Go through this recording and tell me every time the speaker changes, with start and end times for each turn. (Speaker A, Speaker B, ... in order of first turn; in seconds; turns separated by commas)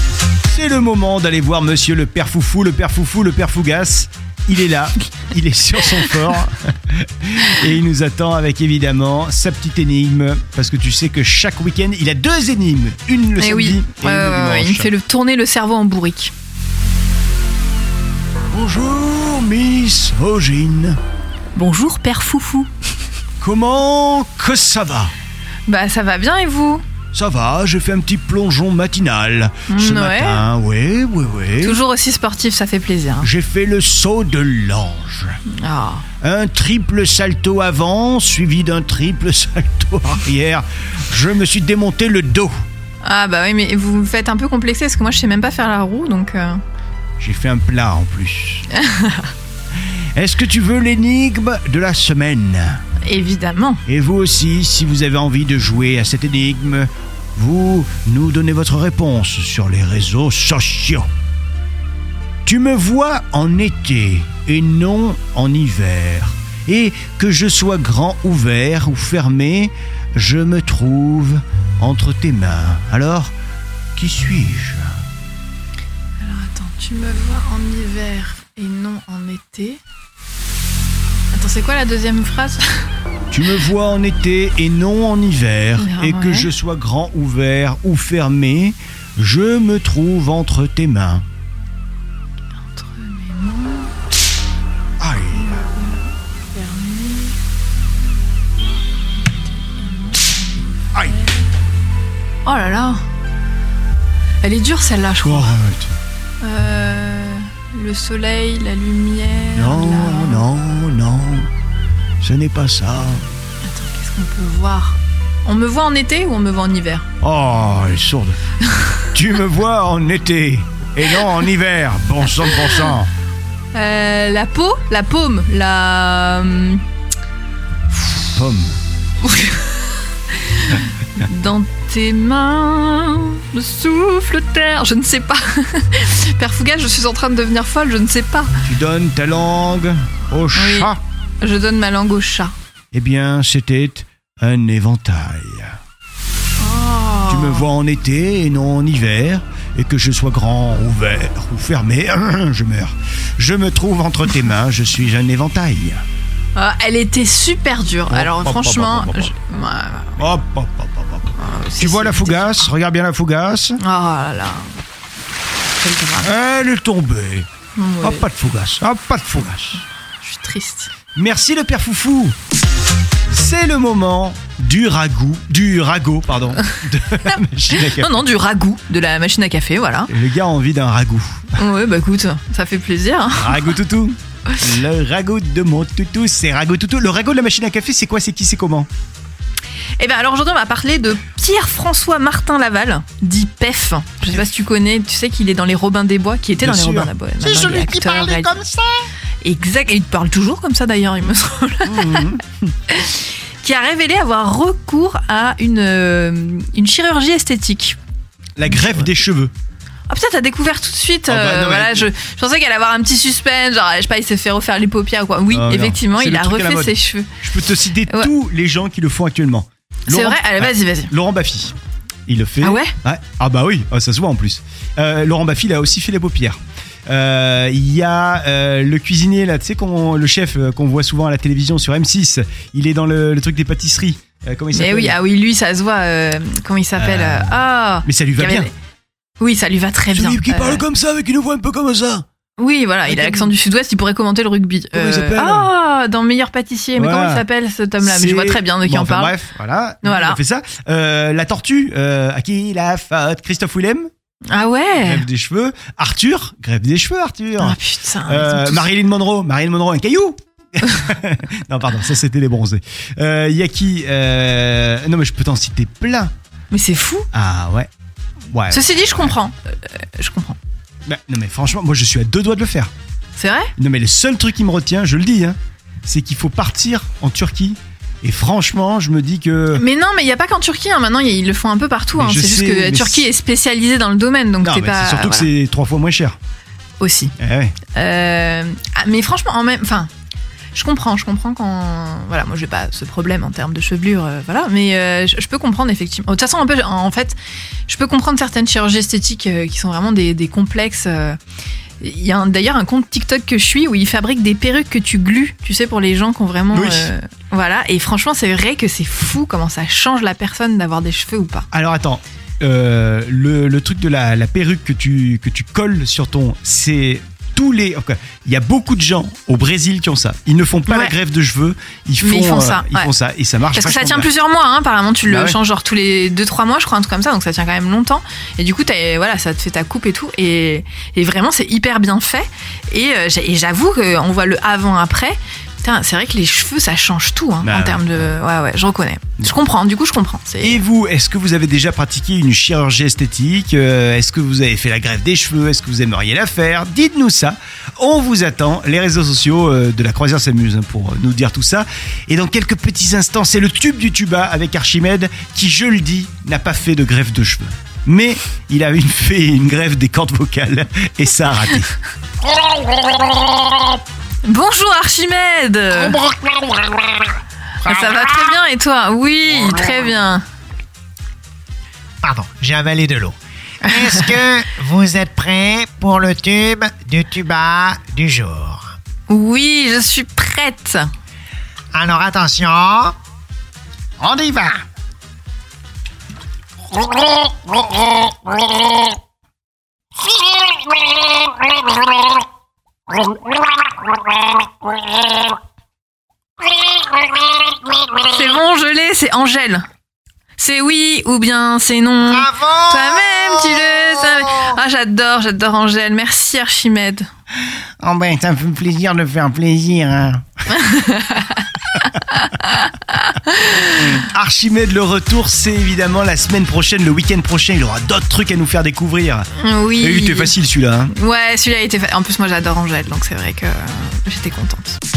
Speaker A: 0.5-14.9, Speaker B: 13.4-16.3, Speaker A: 18.5-21.0, Speaker B: 21.5-22.7, Speaker A: 23.4-25.1, Speaker B: 25.7-26.8, Speaker A: 27.1-31.8, Speaker B: 29.7-30.4, Speaker B: 31.6-33.3, Speaker A: 33.2-35.4, Speaker B: 35.5-36.0, Speaker A: 36.2-42.5, Speaker B: 43.0-46.6, Speaker A: 47.2-48.6, Speaker B: 48.7-49.3, Speaker A: 50.1-52.8, Speaker B: 53.0-53.8, Speaker A: 53.9-61.1, Speaker A: 62.4-73.3, Speaker A: 74.0-75.0, Speaker B: 76.2-79.8, Speaker B: 81.3-82.8, Speaker A: 83.3-91.2, Speaker B: 85.8-86.5, Speaker B: 92.6-93.9, Speaker A: 95.0-95.6, Speaker B: 95.3-97.3, Speaker B: 98.6-101.3, Speaker B: 102.4-103.0, Speaker B: 104.4-105.5, Speaker A: 105.2-106.0, Speaker B: 106.4-110.5, Speaker A: 109.5-111.5, Speaker A: 112.2-113.3, Speaker B: 113.6-117.1, Speaker A: 117.2-118.4, Speaker B: 118.7-119.0, Speaker A: 119.1-123.1, Speaker B: 122.4-122.8, Speaker B: 123.7-126.8, Speaker A: 127.9-128.8, Speaker B: 129.2-138.5, Speaker A: 138.6-141.0, Speaker B: 140.5-142.5, Speaker A: 142.9-145.8, Speaker B: 146.6-147.7, Speaker A: 147.3-156.0, Speaker B: 156.6-160.2, Speaker A: 158.1-159.3, Speaker A: 160.2-163.8, Speaker B: 161.4-162.7, Speaker B: 163.8-164.8, Speaker B: 165.8-166.3, Speaker A: 166.2-167.5, Speaker B: 167.8-168.2, Speaker A: 168.0-169.8, Speaker B: 170.2-170.9, Speaker A: 171.1-172.3, Speaker A: 173.3-178.2, Speaker B: 177.7-180.1, Speaker A: 180.1-181.6, Speaker B: 181.6-183.6, Speaker A: 183.3-188.9, Speaker B: 190.0-198.5, Speaker A: 196.6-199.1, Speaker B: 199.4-202.3, Speaker A: 201.8-202.7, Speaker B: 202.9-208.0, Speaker A: 208.6-209.5, Speaker B: 210.1-217.3, Speaker A: 211.3-212.1, Speaker A: 215.5-221.7, Speaker B: 220.1-221.1, Speaker A: 222.3-235.2, Speaker B: 222.6-222.9, Speaker B: 234.7-238.7, Speaker A: 236.9-238.7, Speaker B: 239.4-240.8, Speaker A: 240.1-242.2, Speaker B: 242.6-249.3, Speaker A: 243.1-243.5, Speaker A: 244.9-245.7, Speaker A: 246.9-247.4, Speaker A: 248.0-254.1, Speaker B: 250.0-250.4, Speaker B: 254.5-255.2, Speaker A: 255.0-266.3, Speaker B: 257.6-258.9, Speaker B: 266.7-267.3, Speaker A: 267.3-267.9, Speaker A: 268.5-269.4, Speaker B: 268.7-270.6, Speaker A: 271.1-272.9, Speaker B: 273.4-273.7, Speaker A: 273.8-279.8, Speaker B: 279.7-285.5, Speaker A: 282.1-283.3, Speaker A: 284.6-286.4, Speaker B: 287.0-287.3, Speaker A: 287.4-287.8, Speaker B: 287.9-290.1, Speaker B: 290.7-297.4, Speaker B: 297.9-301.4, Speaker B: 302.0-311.7, Speaker A: 306.7-307.1, Speaker A: 311.7-324.3, Speaker B: 320.9-321.1, Speaker B: 322.2-323.1, Speaker B: 323.7-340.8, Speaker A: 325.3-325.6, Speaker A: 337.6-338.3, Speaker A: 340.6-361.9, Speaker B: 364.4-366.2, Speaker B: 367.8-370.4, Speaker C: 372.2-378.9, Speaker B: 379.3-381.1, Speaker C: 381.9-383.1, Speaker C: 384.2-384.8, Speaker B: 398.2-399.9, Speaker B: 400.6-407.3, Speaker C: 402.3-403.4, Speaker C: 408.0-410.4, Speaker B: 410.7-411.6, Speaker B: 412.2-414.2, Speaker A: 413.9-421.1, Speaker B: 419.6-420.5, Speaker B: 421.1-425.0